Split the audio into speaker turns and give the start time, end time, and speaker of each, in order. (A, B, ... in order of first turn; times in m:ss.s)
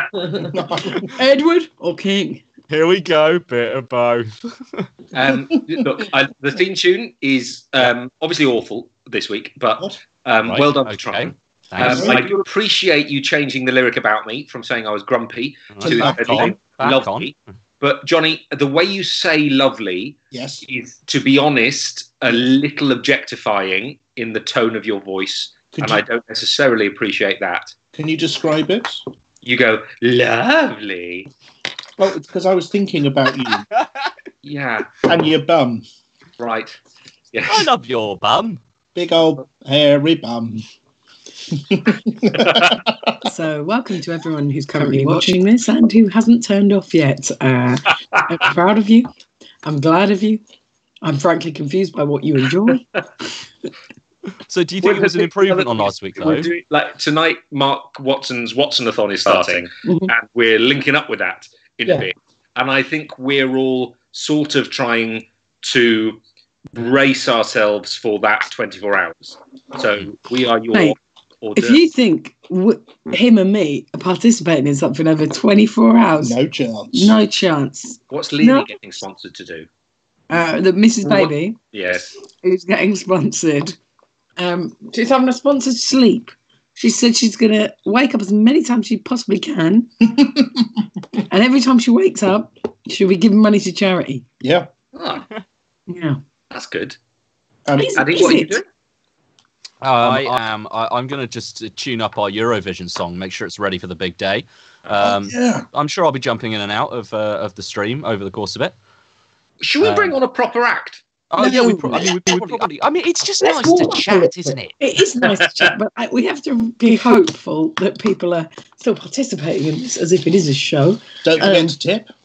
0:00.2-0:00.5 A
0:00.5-0:01.1 B
0:01.2-0:02.4 A
0:02.7-0:04.9 C
0:05.1-0:27.8 D
0:10.5-0:12.3 C
0:11.8-0:12.3 B
0:15.7-0:17.3 C
0:15.8-0:16.6 B
0:20.3-0:20.6 B
0:25.7-0:26.0 B
0:27.9-0:29.0 B
0:29.4-0:31.3 D
0:32.0-0:33.7 B
0:34.4-0:35.0 D
0:35.0-0:35.8 B
0:36.4-0:36.8 D
0:37.3-0:37.7 D
0:37.5-0:38.6 C
0:39.0-0:40.7 B
0:41.6-0:43.1 B
0:42.5-0:42.8 D
0:43.2-0:49.1 A
0:44.7-0:45.5 B
0:49.6-0:50.4 A
0:51.0-0:52.9 A
0:54.5-0:56.5 C
0:54.8-1:06.2 D
0:59.8-1:00.1 A
1:06.7-1:11.9 D
1:11.6-1:16.4 A
1:16.2-1:17.2 B
1:16.9-1:18.7 A
1:18.1-1:19.7 D
1:20.3-1:21.6 A
1:21.0-1:22.1 D
1:22.4-1:23.8 A
1:24.4-1:29.9 A
1:31.3-1:34.2 A
1:34.4-1:34.7 B
1:34.9-1:35.3 D
1:35.9-1:36.2 A
1:36.5-1:37.0 D
1:37.7-1:38.5 B
1:37.8-1:38.6 A
1:38.0-1:38.7 D
1:39.8-1:48.8 C
1:40.0-1:40.4 D
1:45.0-1:45.7 B
1:49.6-1:51.0 D
1:49.8-1:50.2 C
1:51.3-1:54.7 C
1:51.4-1:52.1 A
1:53.4-2:01.7 A
1:55.2-1:55.7 D
2:01.2-2:02.1 B